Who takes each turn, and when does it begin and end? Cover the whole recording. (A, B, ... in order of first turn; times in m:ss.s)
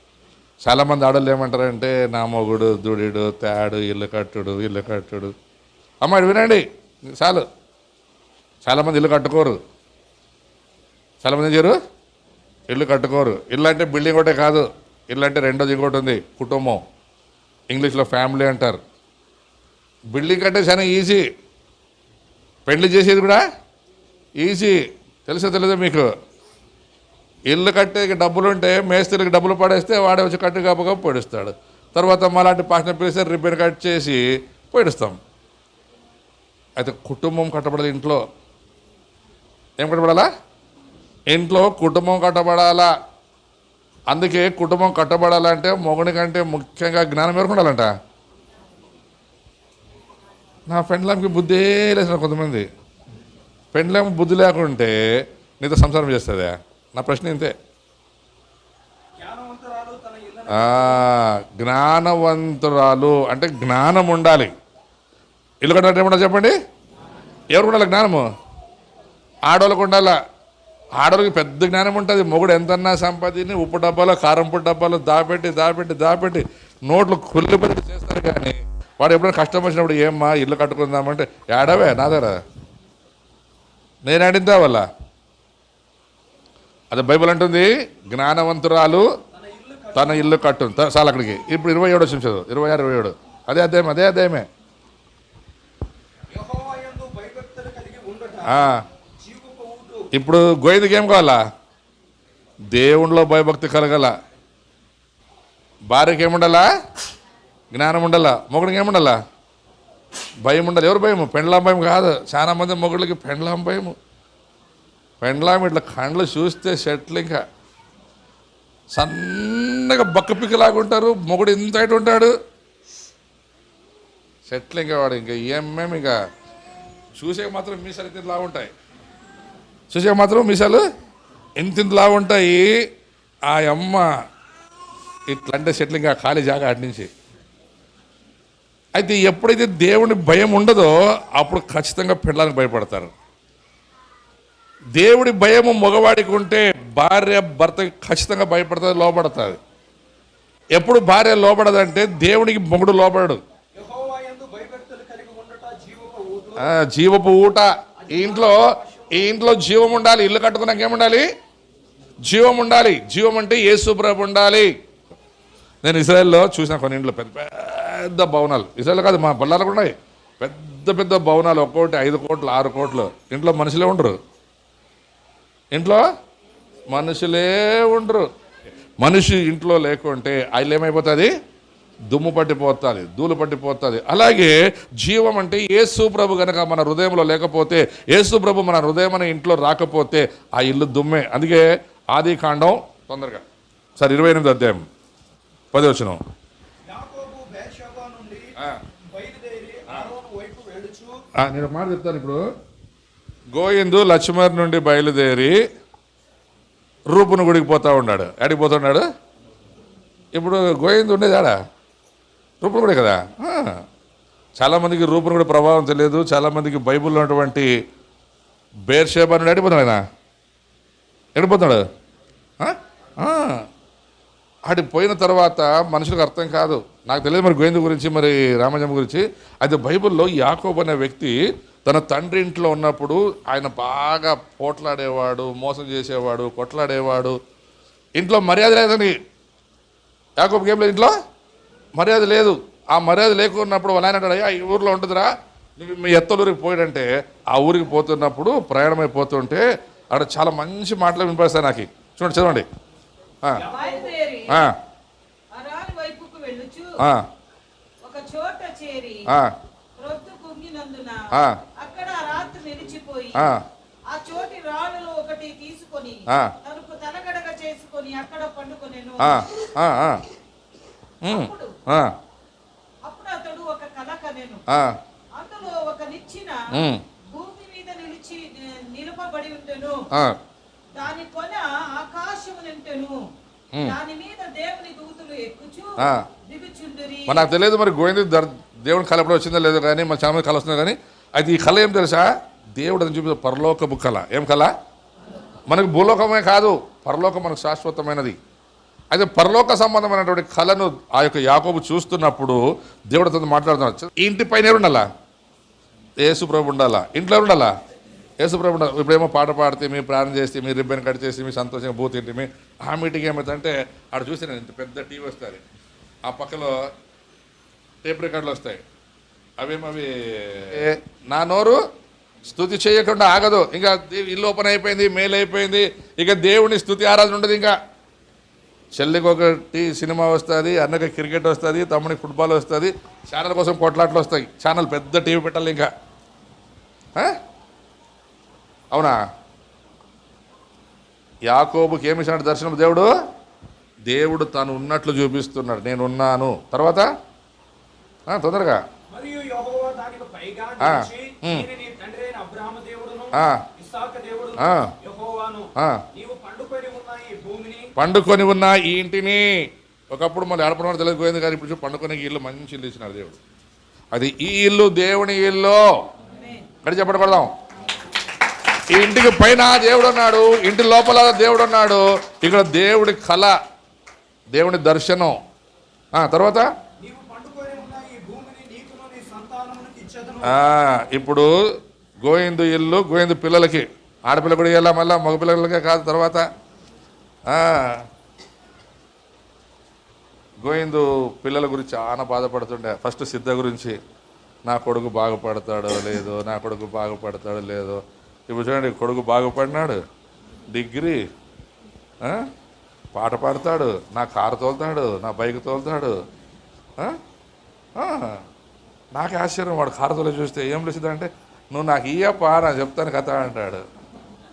0:00.6-0:05.3 A
0:06.0-0:07.4 A
0:08.6-0:09.6 A
0:11.2-0:11.8 A
0:12.7-0:16.8 A
0:17.7-0:18.8 A
0:20.1-0:21.2 A
0:22.7-0:23.4 A
0:24.4-0:26.1 A
0:27.5-0:35.2 A
0:36.8-0:38.2 A
0:39.8-0:40.3 A
0:41.3-0:42.9 A
0:44.1-0:47.9 A
0:50.7-0:52.6 A
0:53.7-0:54.9 A
0:55.6-0:57.5 A
0:59.2-1:01.0 B
1:00.5-1:04.5 A
1:05.6-1:06.5 A
1:07.5-1:08.2 A
1:09.5-1:10.1 A
1:11.0-1:22.4 A
1:24.0-1:24.8 A
1:26.9-1:29.0 A
1:29.3-1:30.4 B
1:29.9-1:34.4 A
1:36.3-1:40.1 B
1:38.4-1:38.8 A
1:40.1-1:41.4 A
1:42.7-1:44.1 A
1:45.9-1:46.7 A
1:47.7-1:49.2 A
1:50.4-1:53.9 A
1:55.2-1:57.4 A
1:58.9-2:02.3 A
2:04.4-2:06.2 A
2:07.2-2:08.7 A
2:09.9-2:10.8 A
2:11.6-2:12.7 A
2:13.5-2:14.1 A
2:15.3-2:17.1 A
2:18.9-2:23.1 A
2:25.0-2:29.6 A
2:30.7-2:33.4 A
2:33.7-2:36.6 B
2:36.6-2:41.2 A
2:38.0-2:39.3 B
2:42.2-2:44.7 A
2:45.8-2:54.2 A
2:55.7-2:56.0 A
2:56.9-2:58.3 A
2:59.0-3:01.3 A
3:02.1-3:13.4 A
3:14.0-3:14.8 A
3:15.7-3:16.2 A
3:16.8-3:18.5 B
3:19.0-3:21.2 B
3:21.4-3:22.4 A
3:23.5-3:25.6 A
3:27.1-3:29.0 A
3:30.3-3:31.6 A
3:32.6-3:33.8 A
3:34.6-3:37.7 A
3:38.9-3:40.0 A
3:41.4-3:41.8 A
3:42.6-3:43.6 A
3:44.6-3:57.4 A
3:58.2-3:59.2 A
4:00.4-4:01.1 A
4:02.0-4:12.6 A
4:13.6-4:14.1 B
4:13.6-4:14.7 C
4:14.5-4:14.7 A
4:15.5-4:16.9 C
4:18.0-4:19.3 C
4:20.0-4:21.2 C
4:21.3-4:21.6 A
4:21.8-4:23.5 C
4:23.3-4:23.6 A
4:24.1-4:29.4 C
4:26.3-4:26.5 A
4:29.2-4:30.2 A
4:31.2-4:32.1 A
4:31.3-4:31.7 C
4:33.0-4:34.6 C
4:34.7-4:35.0 A
4:35.3-4:40.0 C
4:36.7-4:37.0 A
4:40.9-4:43.2 C
4:43.8-4:47.5 C
4:46.0-4:46.2 A
4:47.3-4:54.7 A
4:55.7-4:58.4 A
4:59.1-5:05.1 A
5:06.2-5:07.7 A
5:08.4-5:15.6 A
5:16.2-5:16.8 A
5:18.0-5:18.8 A
5:19.6-5:21.8 A
5:22.5-5:27.7 A
5:28.9-5:35.9 A
5:38.9-5:39.2 A
5:41.5-5:43.1 A
5:44.1-5:47.1 A
5:48.3-5:48.8 A
5:49.1-5:57.9 B
5:50.8-5:51.7 A
5:53.3-5:53.6 A
5:54.6-5:54.9 A
5:55.8-5:56.0 A
5:58.0-5:59.5 A
6:00.1-6:03.4 A
6:04.1-6:05.8 A
6:06.3-6:06.6 C
6:06.8-6:07.5 A
6:08.9-6:13.6 A
6:14.5-6:15.4 A
6:16.1-6:16.7 A
6:17.0-6:20.6 B
6:20.4-6:21.5 A
6:22.2-6:26.4 A
6:27.5-6:28.0 A
6:30.6-6:34.0 A
6:34.6-6:40.0 A
6:40.7-6:41.2 A
6:42.2-6:42.5 A
6:43.1-6:46.2 A
6:48.0-6:48.4 A
6:49.1-6:53.8 A